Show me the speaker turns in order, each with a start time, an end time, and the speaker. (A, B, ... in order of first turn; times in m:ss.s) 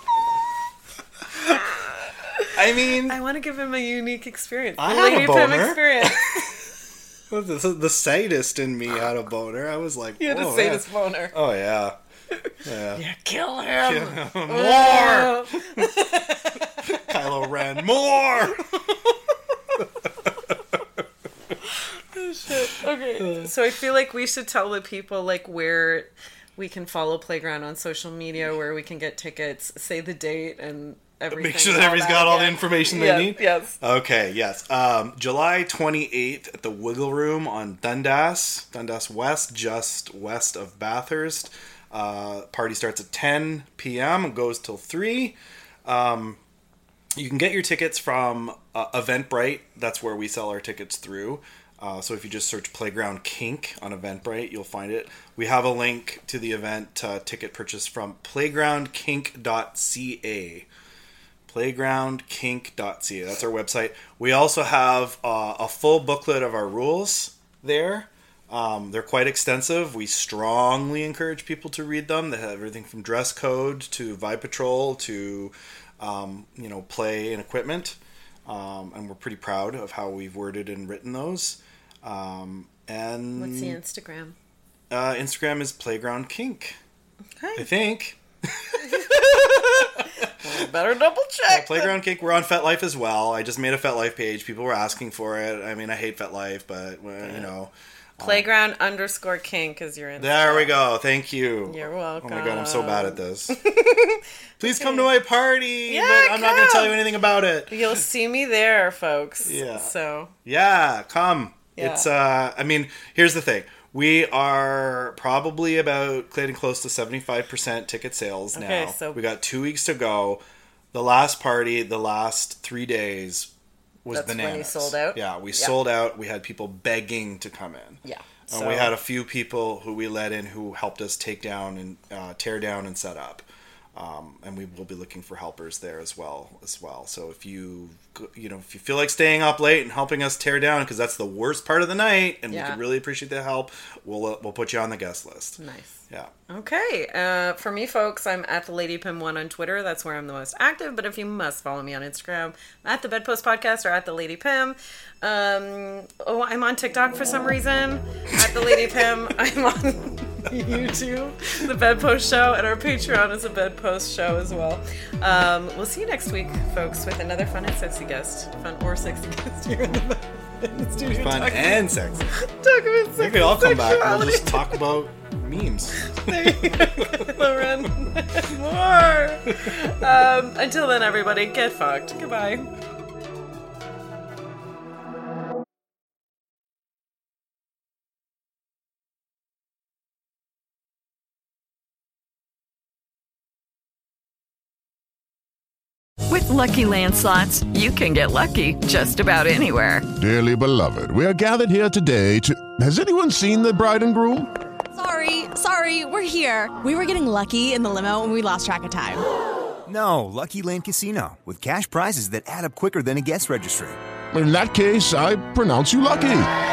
0:02.5-0:03.2 A
0:03.1-0:06.5 B
0:04.8-0:06.6 A
0:07.3-0:12.0 A
0:10.2-0:11.4 B
0:12.5-0:16.9 B
0:12.6-0:13.0 A
0:13.8-0:15.9 A
0:16.8-0:18.8 A
0:19.8-0:20.5 A
0:22.1-0:33.8 B
0:23.2-0:23.5 A
0:31.3-0:46.4 A
0:47.1-1:00.7 A
1:01.5-1:23.8 A
1:23.4-1:24.4 B
1:24.9-1:26.8 A
1:27.4-1:27.7 B
1:27.6-1:30.2 A
1:28.8-1:32.0 B
1:31.5-1:38.5 A
1:37.2-1:37.5 B
1:38.2-1:40.8 B
1:40.2-1:43.6 A
1:41.7-1:45.1 B
1:44.6-1:48.0 A
1:45.9-1:47.0 B
1:47.7-1:50.3 B
1:49.4-1:49.9 A
1:50.4-2:03.5 A
1:51.8-1:52.1 B
1:58.5-1:59.2 B
2:04.0-2:26.3 A
2:04.1-2:05.8 B
2:08.0-2:08.9 B
2:22.5-2:22.8 B
2:25.6-2:54.8 B
2:38.4-2:38.8 A
2:50.9-2:52.3 A
2:53.2-2:57.9 A
2:56.2-3:02.7 B
3:16.3-3:20.1 C
3:20.2-3:24.5 D
3:24.9-3:29.2 E
3:29.9-3:34.0 F
3:34.3-3:36.5 D